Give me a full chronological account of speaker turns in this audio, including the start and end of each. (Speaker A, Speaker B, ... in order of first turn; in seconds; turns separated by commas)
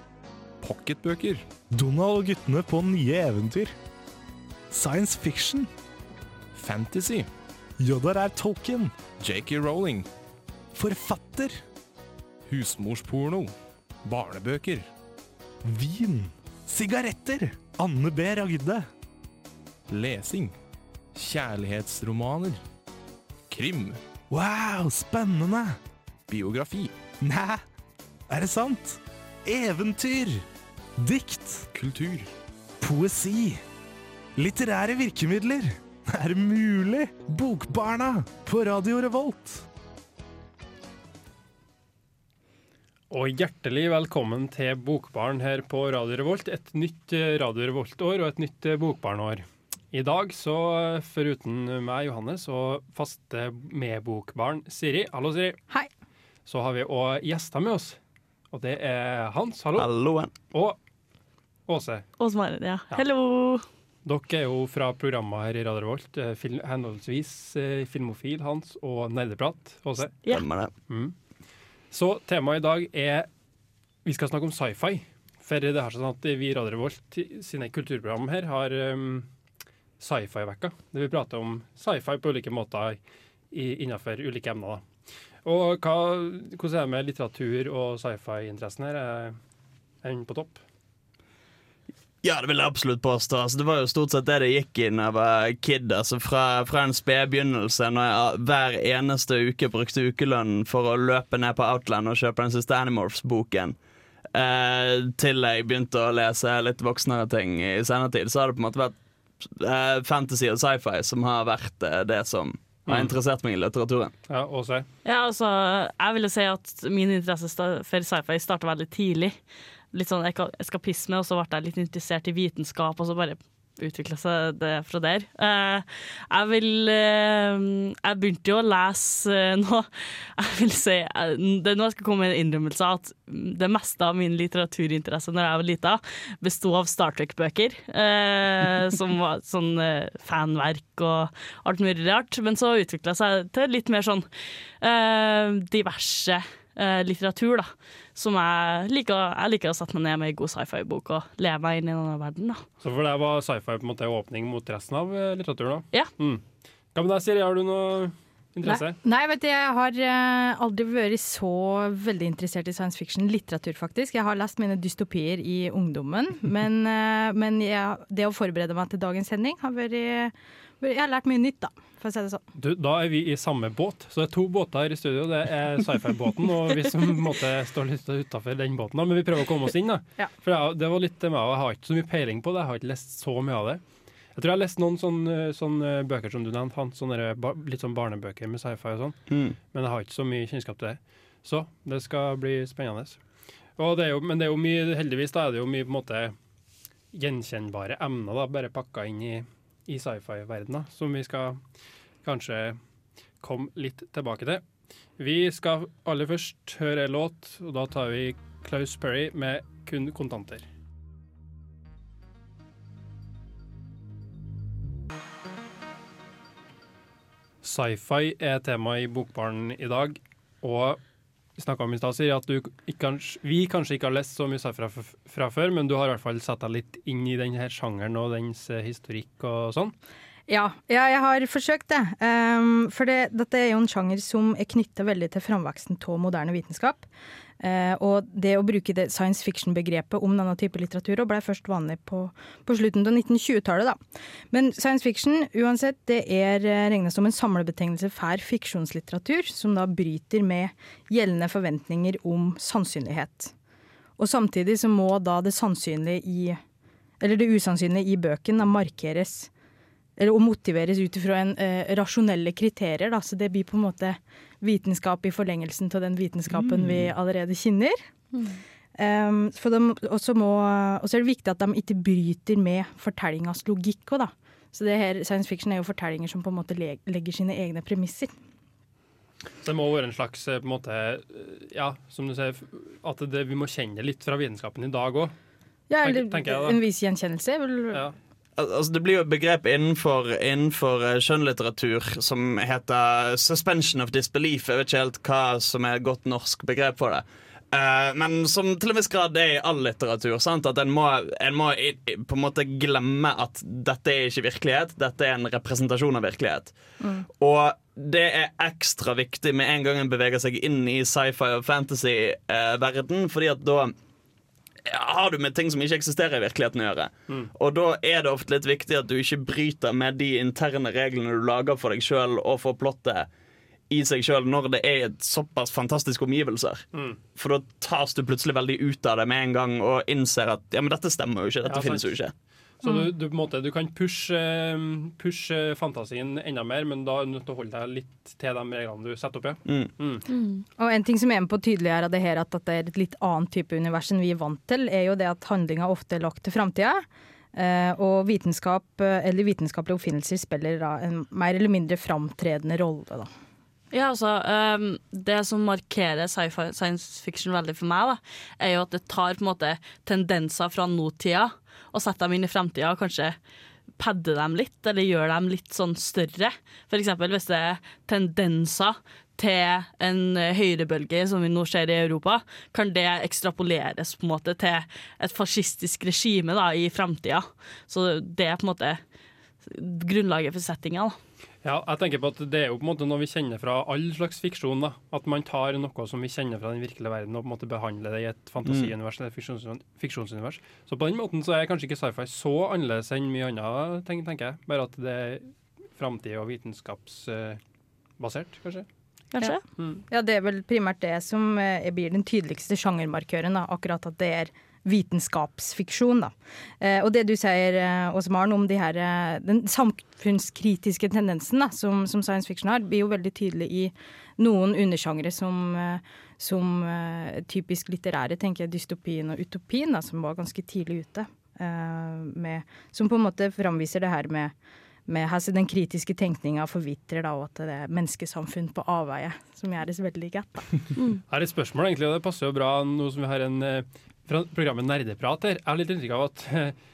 Speaker A: 0.6-1.4, Speaker B: 1.7-3.7, Speaker B: 4.7-5.7, Speaker A: 6.5-7.3, Speaker B: 7.8-9.0, Speaker A: 9.2-10.1, Speaker B: 10.7-11.6, Speaker A: 12.5-13.5, Speaker A: 14.0-14.8, Speaker B: 15.6-18.8, Speaker A: 19.9-20.5, Speaker A: 21.1-22.6, Speaker A: 23.5-24.0, Speaker B: 24.3-25.8, Speaker A: 26.3-26.9, Speaker B: 27.2-27.6, Speaker B: 28.3-30.4, Speaker B: 31.0-31.7, Speaker A: 31.7-32.3, Speaker B: 32.8-33.6, Speaker B: 34.4-39.6, Speaker C: 43.1-55.6, Speaker C: 56.5-58.0, Speaker C: 58.5-59.9, Speaker D: 59.8-60.3, Speaker C: 60.5-60.8, Speaker C: 61.7-62.0, Speaker E: 62.2-63.6, Speaker C: 64.0-70.1, Speaker D: 70.3-70.7, Speaker C: 70.9-71.1, Speaker C: 71.9-73.3, Speaker C: 74.0-79.3, Speaker C: 80.0-83.0, Speaker C: 83.5-84.8, Speaker C: 85.4-89.4, Speaker C: 90.0-90.6, Speaker D: 92.2-103.8, Speaker D: 104.3-114.1, Speaker C: 112.9-113.1, Speaker C: 114.3-114.8, Speaker E: 115.0-119.3, Speaker E: 119.9-144.3, Speaker E: 144.8-152.6, Speaker C: 152.8-159.0, Speaker F: 159.0-172.4, Speaker C: 172.6-183.8, Speaker C: 184.3-189.2, Speaker D: 189.3-189.6, Speaker C: 189.7-193.2, Speaker C: 193.8-196.3, Speaker C: 197.1-201.6, Speaker C: 202.2-202.8, Speaker C: 203.4-204.6, Speaker C: 205.2-210.6, Speaker C: 217.6-221.0, Speaker C: 221.6-229.9, Speaker F: 230.5-237.1, Speaker F: 237.6-253.5, Speaker F: 254.2-256.6, Speaker F: 257.2-259.5, Speaker F: 260.2-268.0, Speaker C: 266.7-267.1, Speaker F: 268.9-278.3, Speaker C: 279.6-285.3, Speaker F: 285.9-288.0, Speaker C: 286.0-286.8, Speaker D: 288.6-306.7, Speaker D: 307.4-313.9, Speaker D: 314.9-323.3, Speaker D: 323.9-332.3, Speaker C: 326.9-327.2, Speaker C: 331.6-332.1, Speaker C: 332.8-340.2, Speaker D: 339.6-339.9, Speaker E: 340.3-340.6, Speaker F: 340.8-353.3, Speaker E: 353.9-363.4, Speaker E: 364.0-379.0, Speaker E: 379.6-381.2, Speaker C: 381.6-397.6, Speaker D: 388.6-388.9, Speaker C: 398.2-398.9, Speaker E: 399.3-399.6, Speaker F: 399.4-424.5, Speaker F: 425.1-430.7, Speaker C: 431.3-436.8